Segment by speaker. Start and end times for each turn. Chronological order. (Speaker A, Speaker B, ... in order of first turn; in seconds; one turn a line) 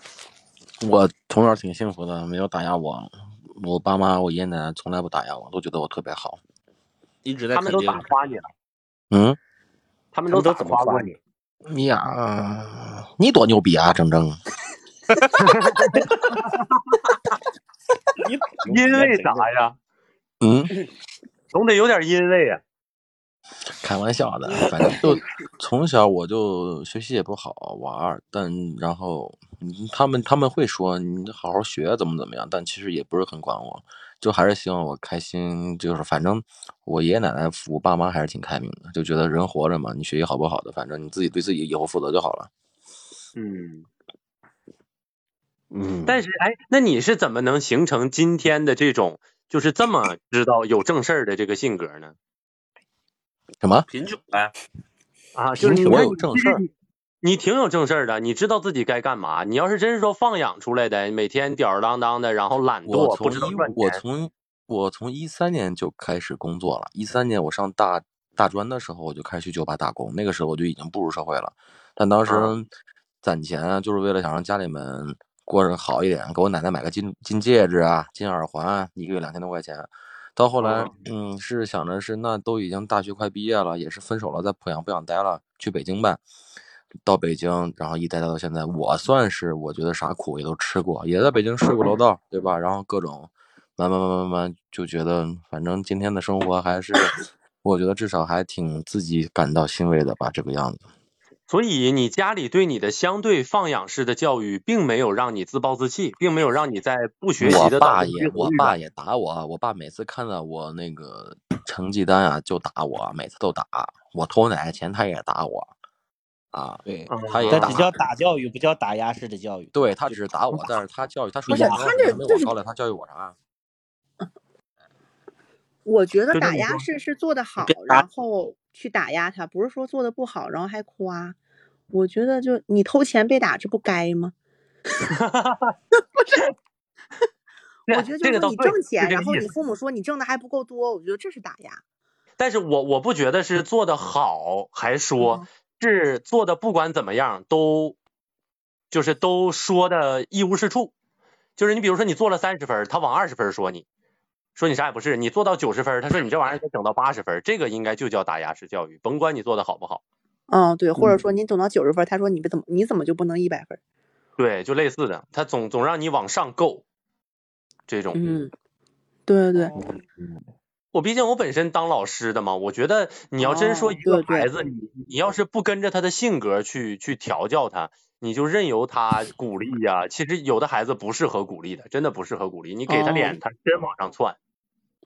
Speaker A: 0.8-6.4
Speaker B: 7.2-8.1
Speaker C: 7.5-8.5
Speaker A: 9.1-9.4
Speaker C: 10.1-11.1
Speaker D: 10.3-11.2
Speaker A: 11.7-14.4
Speaker C: 15.3-17.2
Speaker D: 18.2-19.5
Speaker C: 18.7-19.8
Speaker A: 20.4-20.7
Speaker C: 21.5-22.6
Speaker A: 23.8-42.5
Speaker D: 43.4-43.9
Speaker D: 45.7-46.2
Speaker C: 46.0-52.1
Speaker B: 53.9-54.5
Speaker C: 55.4-56.7
Speaker D: 55.6-56.0
Speaker A: 55.9-56.6
Speaker C: 57.2-64.0
Speaker A: 62.9-72.7
Speaker C: 72.3-72.5
Speaker A: 73.2-86.2
Speaker C: 80.6-80.9
Speaker A: 87.0-100.9
Speaker C: 101.5-108.8
Speaker A: 107.4-115.7
Speaker A: 116.5-117.9
Speaker D: 116.9-120.6
Speaker C: 117.1-117.9
Speaker A: 119.7-123.4
Speaker E: 121.5-122.5
Speaker D: 121.5-121.9
Speaker E: 125.9-131.4
Speaker C: 126.3-126.8
Speaker B: 127.6-128.0
Speaker E: 131.9-134.3
Speaker C: 135.1-135.8
Speaker C: 137.9-139.4
Speaker E: 137.9-141.8
Speaker C: 142.4-148.0
Speaker E: 145.2-145.5
Speaker C: 148.9-150.9
Speaker C: 151.6-153.8
Speaker C: 154.6-160.0
Speaker E: 160.5-163.8
Speaker C: 164.4-166.8
Speaker C: 167.9-168.4
Speaker E: 168.1-168.5
Speaker E: 169.3-169.8
Speaker D: 169.8-170.4
Speaker C: 170.9-184.4
Speaker E: 173.4-174.5
Speaker E: 182.9-183.4